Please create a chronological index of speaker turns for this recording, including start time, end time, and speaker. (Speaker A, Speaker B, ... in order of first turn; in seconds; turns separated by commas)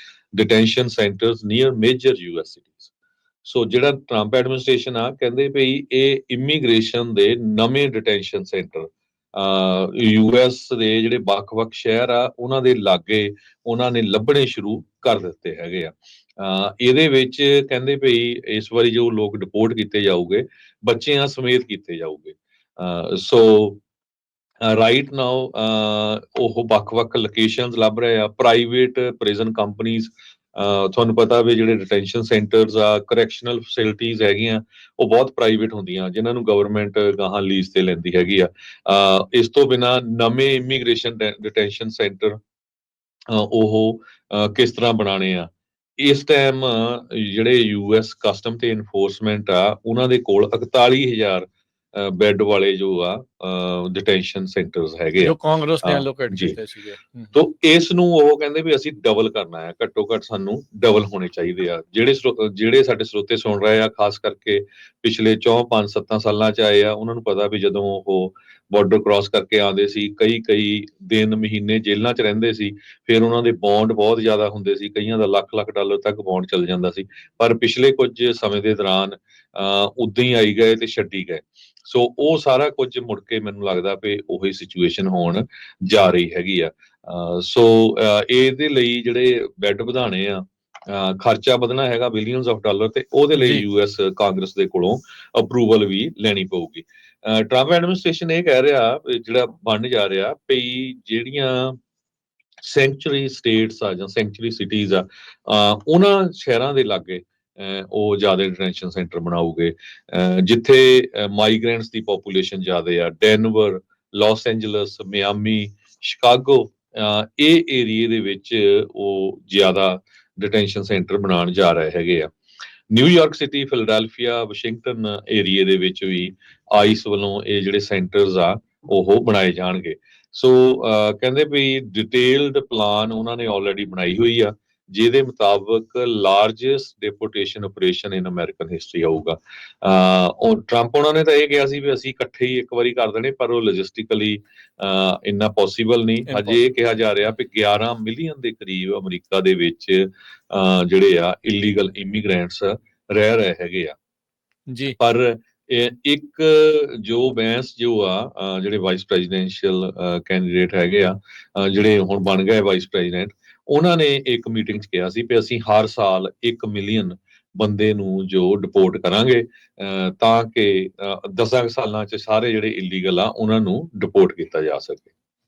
Speaker A: 0.3-2.9, Speaker A: 3.4-23.8, Speaker A: 24.6-42.4, Speaker A: 43.3-56.6, Speaker B: 55.2-57.4, Speaker A: 57.3-101.8, Speaker B: 93.3-93.7, Speaker A: 102.6-122.3, Speaker A: 122.9-153.9, Speaker B: 146.3-146.6, Speaker B: 154.7-155.0, Speaker A: 155.0-175.1